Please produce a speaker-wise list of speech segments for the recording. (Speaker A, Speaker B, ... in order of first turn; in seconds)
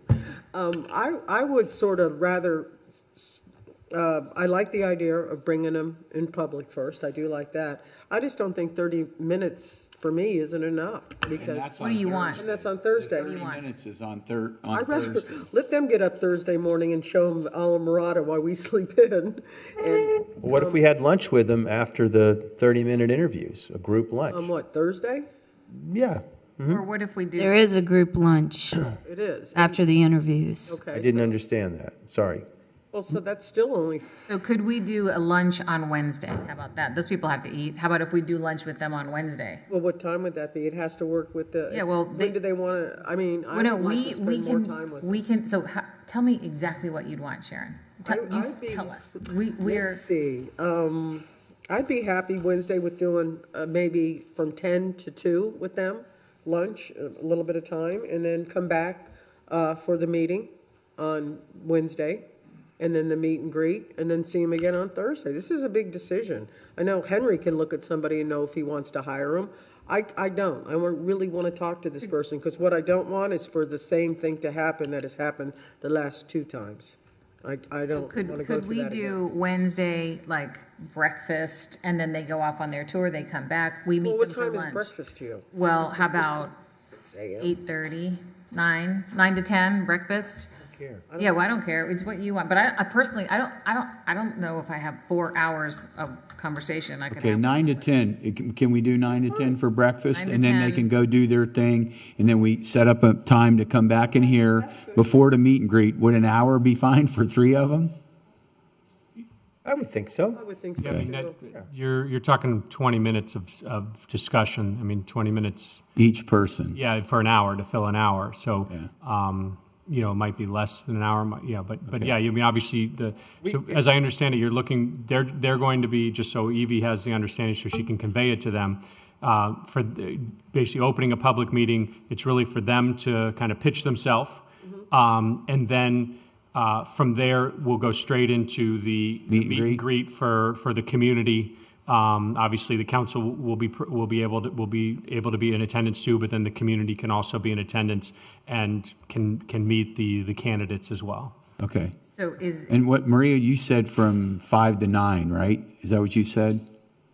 Speaker A: 0.5-11.7, 12.3-13.4, 14.7-20.8, 24.3-25.3, 28.9-30.0, 30.6-31.4, 32.9-34.1, 39.7-45.2, 48.0-49.0, 49.6-62.2, 62.8-79.2, 84.0-85.5, 86.9-87.5, 91.1-91.5, 110.3-111.4
Speaker B: 11.3-15.4, 97.1-107.9, 110.8-111.1, 115.9-116.8, 121.9-122.1, 139.3-139.8, 151.6-151.9, 152.7-156.6
Speaker C: 11.8-12.4, 13.1-13.7, 26.6-27.8, 34.3-39.6, 41.7-42.4, 43.5-50.0, 77.9-84.9, 85.5-86.5, 87.4-90.5, 91.2-98.0, 100.1-100.9, 152.1-152.7
Speaker D: 20.4-24.5, 25.7-26.8, 30.7-32.5, 90.6-91.0, 109.6-110.4, 123.4-123.8
Speaker E: 27.7-28.8, 29.6-30.7
Speaker F: 110.8-115.8, 116.7-151.3